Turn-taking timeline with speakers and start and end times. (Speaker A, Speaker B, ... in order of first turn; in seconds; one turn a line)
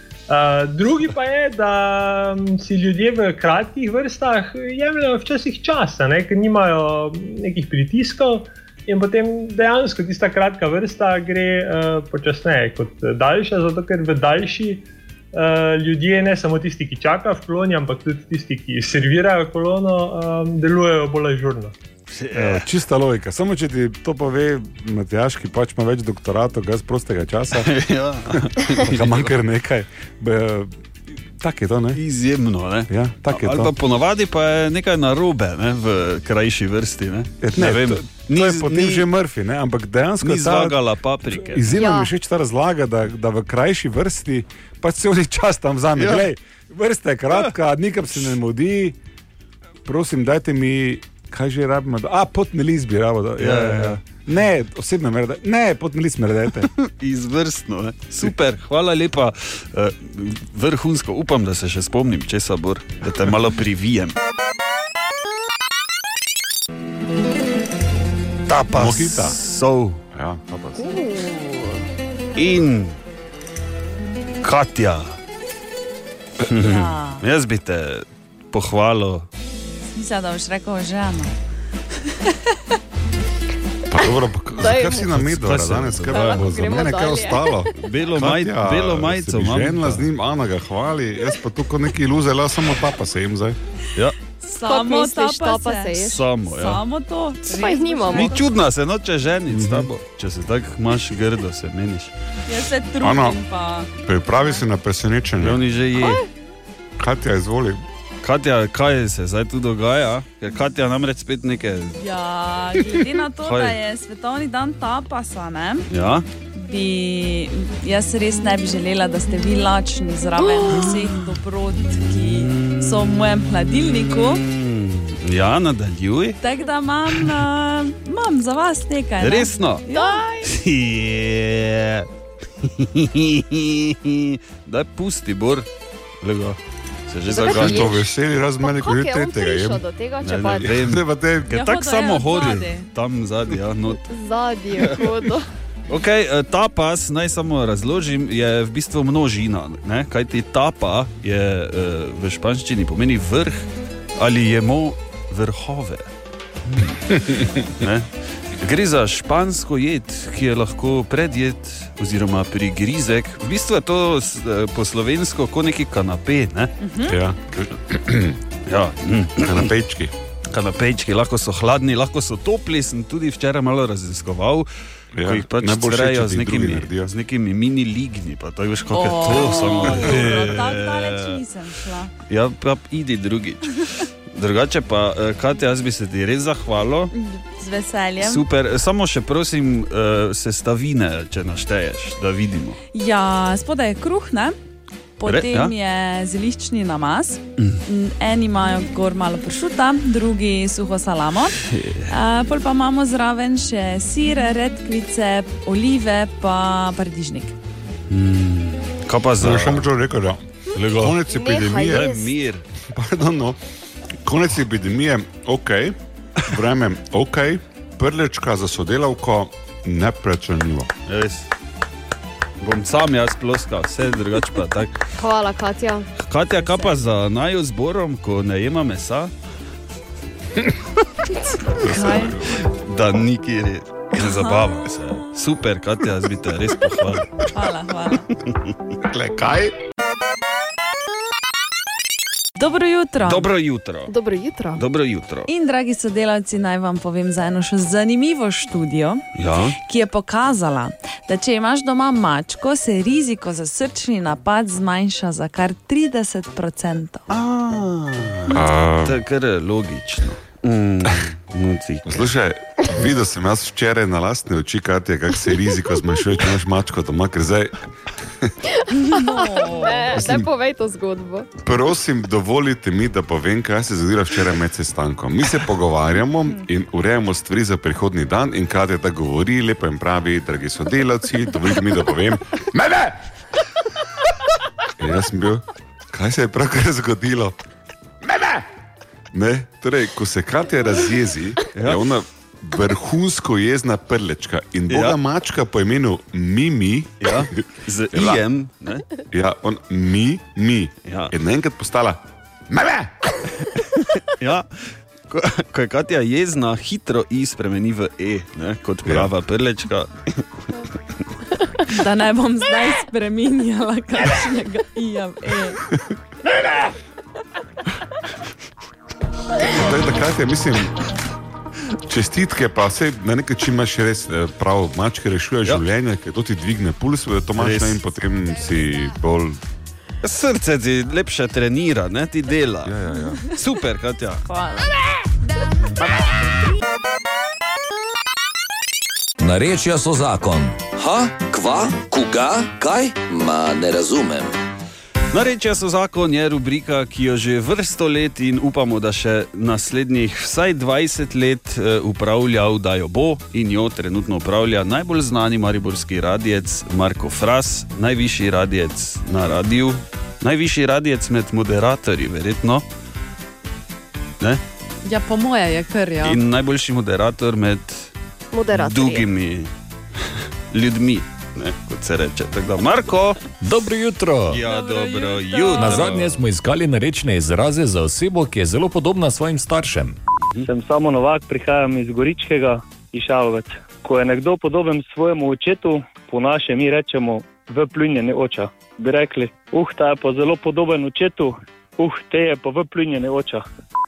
Speaker A: 0.3-21.7
Speaker B: 22.1-22.7
Speaker C: 22.3-27.7
Speaker B: 27.5-29.3
Speaker C: 28.3-30.7
Speaker C: 31.4-32.0
Speaker B: 31.9-39.1
Speaker C: 32.9-33.7
Speaker C: 37.4-40.8
Speaker B: 40.2-41.7
Speaker C: 41.3-49.0
Speaker D: 41.7-42.1
Speaker B: 46.0-46.3
Speaker C: 49.8-56.7
Speaker B: 53.4-54.0
Speaker B: 56.8-64.2
Speaker C: 68.5-69.4
Speaker B: 68.7-70.0
Speaker E: 70.1-70.8
Speaker D: 70.9-71.4
Speaker B: 72.3-73.0
Speaker B: 74.4-75.2
Speaker B: 76.5-79.3
Speaker F: 76.6-77.2
Speaker F: 79.9-81.3
Speaker E: 83.9-84.8
Speaker C: 84.0-87.6
Speaker D: 84.5-85.1
Speaker B: 85.1-86.5
Speaker D: 86.1-87.7
Speaker E: 86.7-89.0
Speaker B: 87.8-90.0
Speaker C: 88.3-93.5
Speaker E: 92.0-92.5
Speaker F: 94.4-98.4
Speaker D: 94.6-96.3
Speaker B: 96.0-96.8
Speaker D: 97.5-98.4
Speaker B: 98.1-102.1
Speaker C: 99.5-99.9
Speaker F: 102.5-103.9
Speaker E: 103.0-103.4
Speaker E: 104.0-105.6
Speaker B: 105.4-106.2
Speaker E: 107.0-107.8
Speaker B: 108.2-112.0
Speaker F: 112.0-115.9
Speaker B: 113.4-113.8
Speaker B: 115.9-116.2
Speaker F: 116.5-124.4
Speaker B: 122.2-123.1
Speaker B: 124.2-126.4
Speaker F: 126.4-130.2
Speaker B: 129.2-129.8
Speaker D: 129.9-130.5
Speaker B: 130.4-132.1
Speaker B: 132.6-135.7
Speaker B: 136.2-136.6
Speaker B: 137.1-137.9
Speaker D: 137.3-140.8
Speaker E: 137.4-139.8
Speaker B: 140.2-144.0
Speaker E: 140.6-141.5
Speaker F: 141.5-142.9
Speaker D: 144.0-145.5
Speaker B: 145.9-156.1
Speaker B: 156.7-166.7
Speaker F: 166.8-167.2
Speaker E: 167.1-168.3
Speaker B: 168.7-169.7
Speaker E: 169.4-170.1
Speaker B: 170.5-174.7
Speaker E: 175.1-177.1
Speaker B: 175.2-181.4
Speaker F: 178.9-182.1
Speaker B: 182.3-187.1
Speaker F: 187.1-188.4
Speaker B: 188.2-192.8
Speaker F: 192.9-194.6
Speaker F: 195.2-207.5
Speaker B: 195.2-195.7
Speaker B: 201.6-202.1
Speaker B: 208.1-209.9
Speaker E: 209.4-212.0
Speaker B: 210.7-211.2
Speaker D: 211.2-212.3
Speaker B: 211.8-212.6
Speaker E: 213.0-213.5
Speaker E: 214.2-215.9
Speaker E: 216.5-220.9
Speaker B: 221.1-221.5
Speaker B: 222.6-224.9
Speaker D: 225.2-226.1
Speaker B: 226.2-229.3
Speaker F: 231.7-232.3
Speaker B: 231.9-237.5
Speaker E: 231.9-232.2
Speaker F: 234.1-234.8
Speaker F: 237.5-238.2
Speaker E: 239.1-239.7
Speaker F: 242.6-243.5
Speaker B: 243.2-244.1
Speaker D: 244.1-244.8
Speaker B: 244.7-245.5
Speaker F: 245.5-249.2
Speaker B: 249.3-249.8
Speaker F: 249.8-257.3
Speaker B: 257.3-262.3
Speaker E: 258.5-259.2
Speaker E: 262.1-267.7
Speaker F: 268.9-270.3
Speaker D: 269.0-271.5
Speaker E: 271.6-283.1
Speaker E: 285.0-287.6
Speaker E: 288.3-288.6
Speaker E: 289.3-297.5
Speaker B: 291.7-292.0
Speaker B: 294.9-295.2
Speaker B: 297.2-299.1
Speaker E: 298.1-298.4
Speaker E: 299.3-302.2
Speaker B: 301.1-301.3
Speaker E: 302.7-303.1
Speaker B: 304.3-310.1
Speaker F: 311.9-315.8
Speaker E: 319.7-320.9
Speaker E: 322.1-329.6
Speaker B: 327.6-328.0
Speaker B: 330.2-334.4
Speaker E: 332.8-333.5
Speaker F: 334.4-334.9
Speaker G: 339.4-344.5
Speaker B: 345.3-362.8
Speaker F: 365.0-366.4
Speaker B: 366.2-368.1
Speaker D: 368.5-369.3
Speaker B: 368.7-369.7
Speaker B: 370.7-373.4
Speaker H: 373.6-374.6
Speaker B: 374.5-376.4
Speaker F: 374.6-376.1
Speaker H: 375.8-380.2
Speaker I: 380.6-393.6